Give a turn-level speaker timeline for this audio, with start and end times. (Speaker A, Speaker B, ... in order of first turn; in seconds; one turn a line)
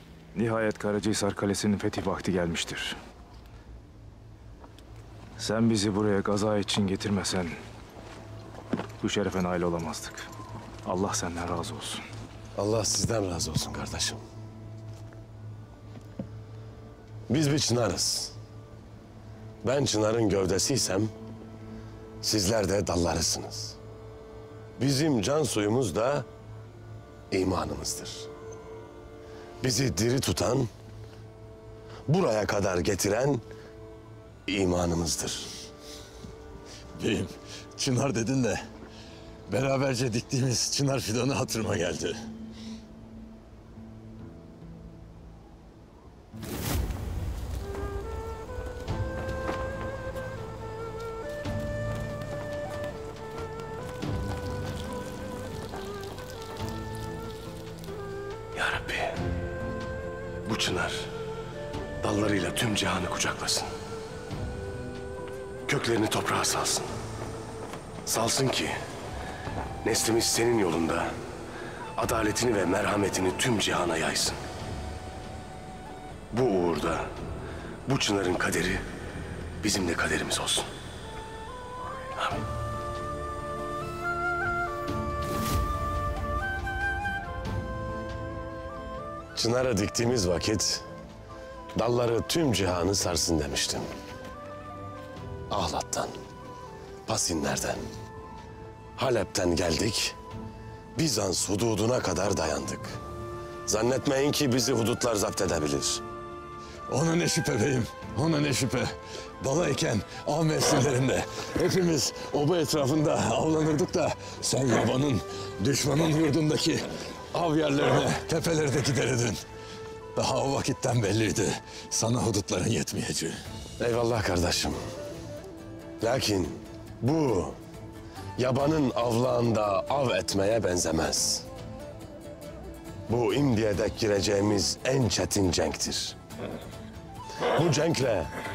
Speaker A: 0.3-3.0
Speaker A: 5.4-7.6
Speaker A: 9.0-10.3
Speaker A: 10.8-12.0
Speaker B: 12.6-14.2
Speaker B: 17.3-18.3
Speaker B: 19.6-21.1
Speaker B: 22.2-23.8
Speaker B: 24.8-26.3
Speaker B: 27.3-28.3
Speaker B: 29.6-30.7
Speaker B: 32.1-33.4
Speaker B: 34.5-35.5
Speaker C: 37.0-38.6
Speaker C: 39.5-42.2
Speaker B: 58.5-59.2
Speaker B: 60.5-61.1
Speaker B: 62.0-63.7
Speaker B: 65.7-66.9
Speaker B: 68.1-68.8
Speaker B: 69.8-71.1
Speaker B: 72.0-74.4
Speaker B: 76.3-77.1
Speaker B: 77.9-78.8
Speaker B: 79.6-80.7
Speaker B: 89.3-90.8
Speaker B: 91.8-93.9
Speaker B: 95.5-96.2
Speaker B: 97.1-97.9
Speaker B: 99.0-100.2
Speaker B: 101.0-103.0
Speaker B: 103.7-106.0
Speaker C: 106.9-119.4
Speaker C: 120.2-123.4
Speaker B: 123.8-124.8
Speaker B: 126.0-127.6
Speaker B: 128.4-131.4
Speaker B: 133.1-136.2
Speaker B: 137.5-138.3